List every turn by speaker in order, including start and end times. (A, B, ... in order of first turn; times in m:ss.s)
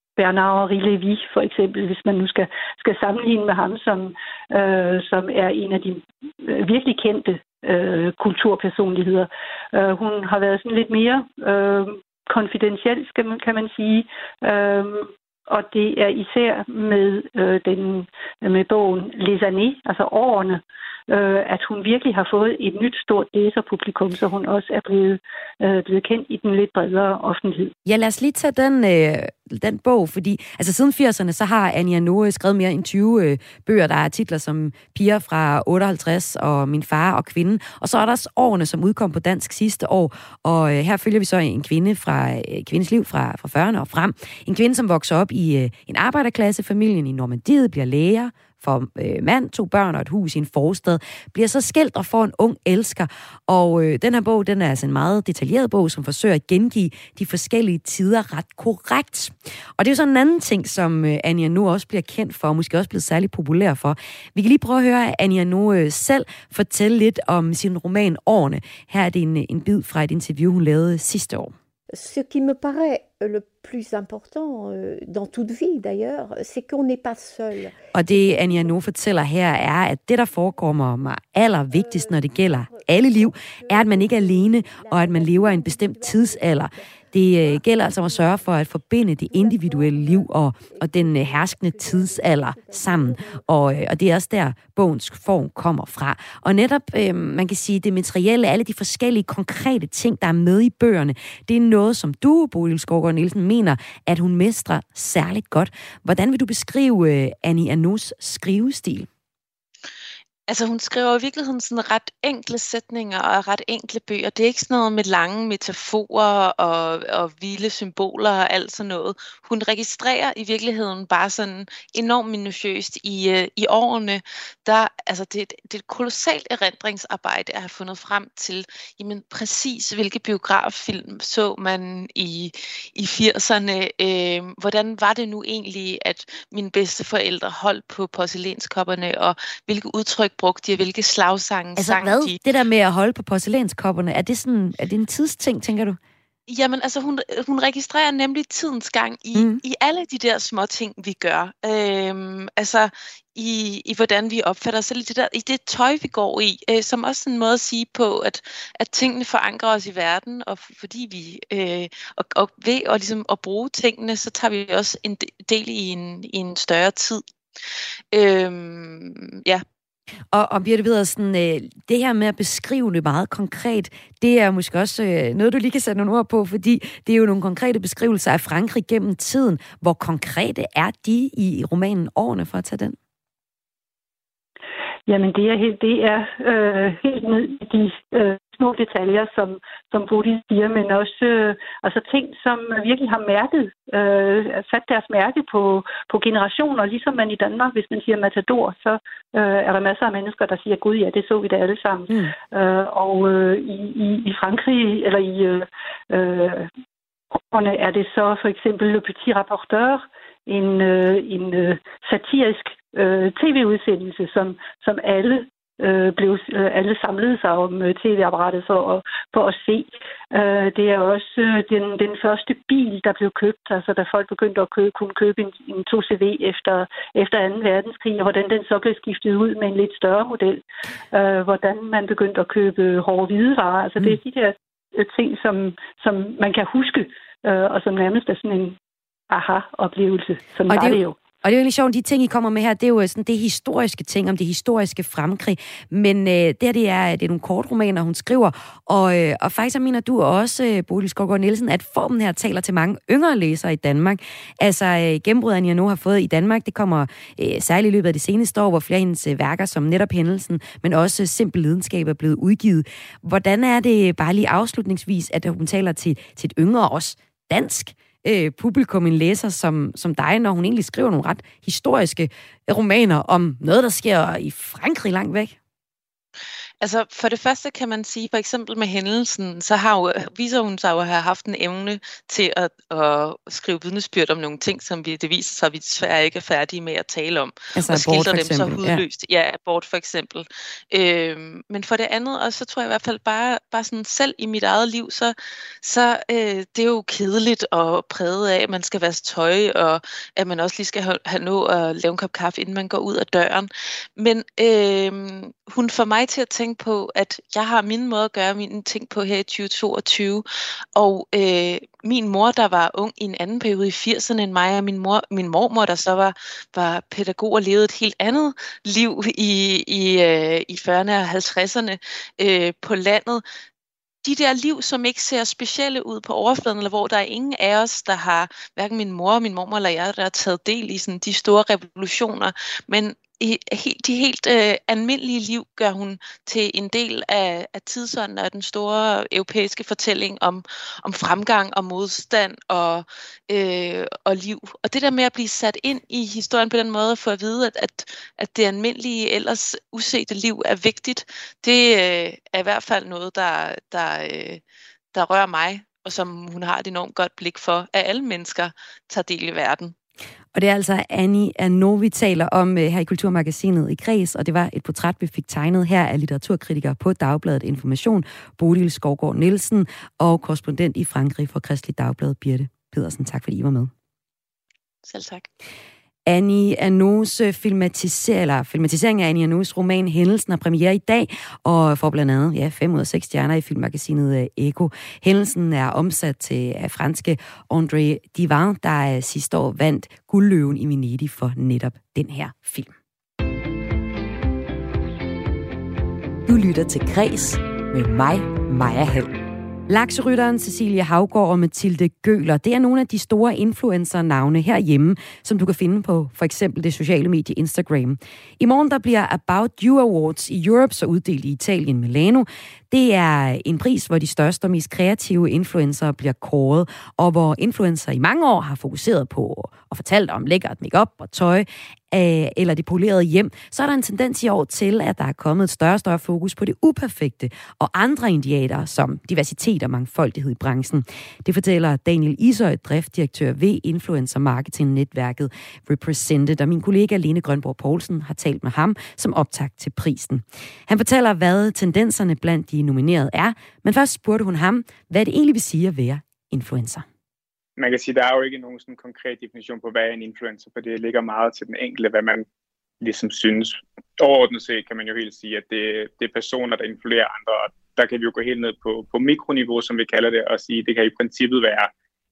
0:00.2-0:27.7 A
0:27.9-1:11.5 B
1:11.9-1:19.0 C
1:17.9-1:49.1 B
1:21.7-1:33.9 C
1:50.5-2:22.4 D
2:21.8-2:26.0 B
2:26.5-2:47.2 D
2:29.4-2:29.6 B
2:48.1-2:49.6 D
2:50.3-3:03.0 B
3:05.1-3:26.7 A
3:27.5-3:58.8 A
3:59.3-4:01.2 A
4:00.7-4:35.6 B
4:36.8-5:23.4 D
4:47.8-4:49.0 B
5:24.2-5:54.6 D
5:55.1-5:59.9 D
6:00.5-6:13.9 B
6:15.0-6:15.5 D
6:16.3-6:32.9 B
6:36.5-6:39.3 B
6:39.9-7:27.0 B
7:27.8-7:32.5 E
7:33.0-7:41.9 E